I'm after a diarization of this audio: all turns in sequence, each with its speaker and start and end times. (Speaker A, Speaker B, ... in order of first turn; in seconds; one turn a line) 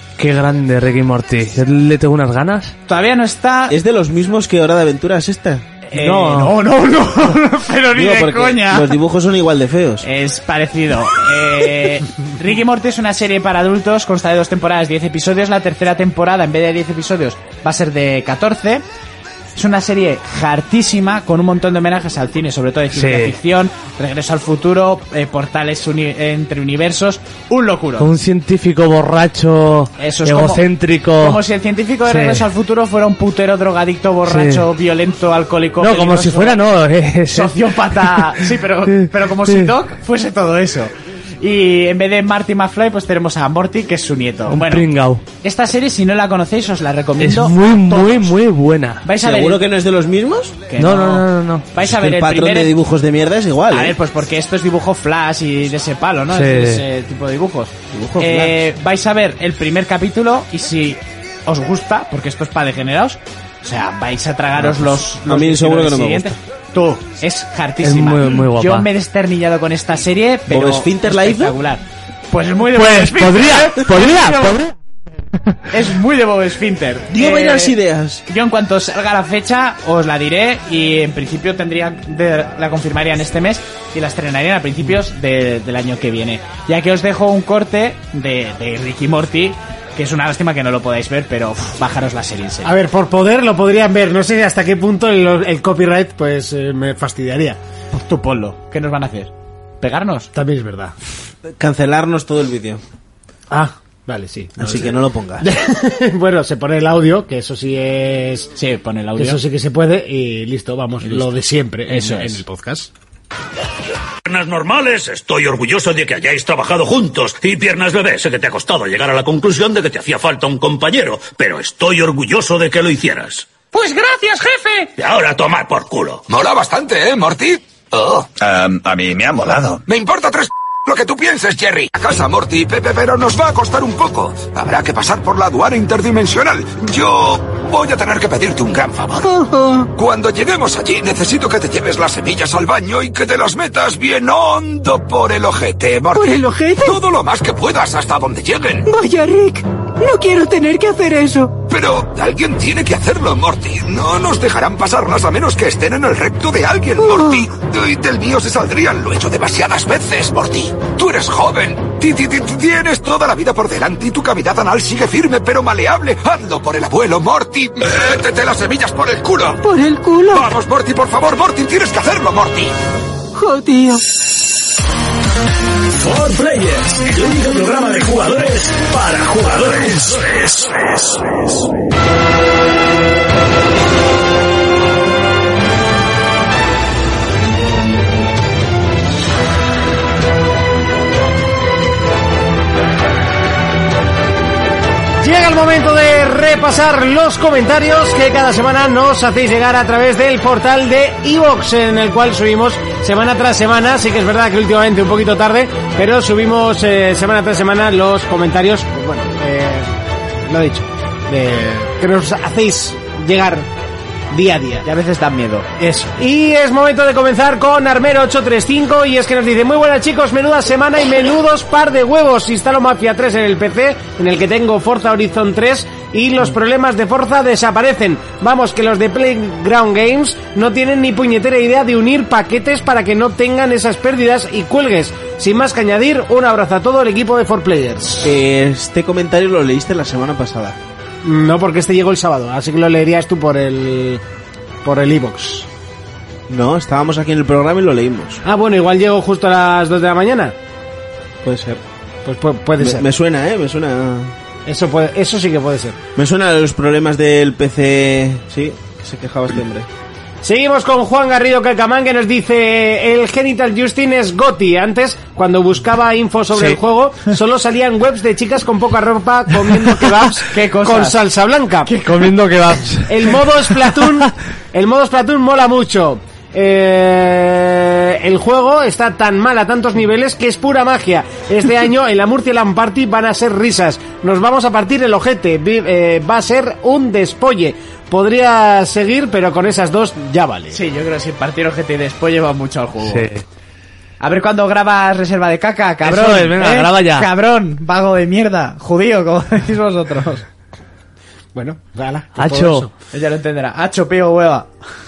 Speaker A: 0.2-2.8
Speaker B: 2.9-3.8
Speaker C: 3.7-5.7
Speaker B: 5.9-9.0
Speaker A: 5.9-6.6
Speaker C: 8.0-10.1
Speaker B: 10.0-18.8
Speaker B: 19.6-28.1
Speaker A: 22.9-23.3
Speaker A: 28.0-31.4
Speaker B: 30.0-30.6
Speaker B: 31.2-36.6
Speaker A: 32.0-32.5
Speaker A: 34.3-34.6
Speaker A: 35.8-38.4
Speaker B: 37.3-44.9
Speaker A: 38.9-39.7
Speaker A: 44.5-45.2
Speaker B: 45.4-48.3
Speaker A: 47.2-49.0
Speaker B: 49.0-49.6
Speaker C: 49.2-50.6
Speaker B: 50.7-52.7
Speaker A: 50.8-51.7
Speaker C: 51.8-54.0
Speaker B: 53.7-74.6
Speaker A: 56.3-56.8
Speaker C: 57.9-58.6
Speaker C: 64.6-66.3
Speaker A: 67.8-68.9
Speaker C: 70.5-71.6
Speaker A: 72.7-74.7
Speaker B: 75.7-77.8
Speaker C: 77.1-78.2
Speaker B: 78.3-92.7
Speaker D: 92.6-97.6
Speaker B: 97.9-100.3
Speaker D: 100.3-100.9
Speaker C: 101.5-102.8
Speaker D: 103.5-108.5
Speaker C: 104.6-105.5
Speaker B: 108.6-109.4
Speaker D: 109.2-112.9
Speaker B: 111.0-111.3
Speaker B: 111.9-112.4
Speaker E: 114.2-123.5
Speaker B: 123.7-124.9
Speaker E: 125.0-126.3
Speaker F: 126.3-127.7
Speaker E: 127.9-128.3
Speaker F: 128.4-139.4
Speaker G: 139.2-139.9
Speaker F: 139.9-148.9
Speaker G: 146.1-147.0
Speaker G: 148.9-151.6
Speaker F: 151.7-169.7
Speaker G: 169.6-170.4
Speaker F: 170.2-172.7
Speaker G: 173.3-174.0
Speaker E: 175.9-181.6
Speaker D: 195.2-209.9
Speaker D: 210.5-213.7
Speaker D: 214.3-214.9
Speaker B: 214.8-215.7
Speaker D: 215.8-238.3
Speaker C: 238.2-240.8
Speaker D: 241.2-244.2
Speaker D: 244.8-245.7
Speaker C: 246.5-248.4
Speaker D: 248.4-250.5
Speaker C: 251.4-251.8
Speaker D: 252.2-253.0
Speaker C: 252.8-254.3
Speaker D: 254.7-256.0
Speaker C: 256.2-259.9
Speaker D: 260.4-271.9
Speaker B: 270.4-271.2
Speaker B: 271.9-272.3
Speaker A: 272.0-273.4
Speaker D: 273.1-290.8
Speaker B: 290.7-293.3
Speaker A: 293.0-293.4
Speaker B: 294.2-300.4
Speaker A: 296.0-297.3
Speaker D: 301.6-302.9
Speaker A: 302.4-302.9
Speaker B: 303.1-304.7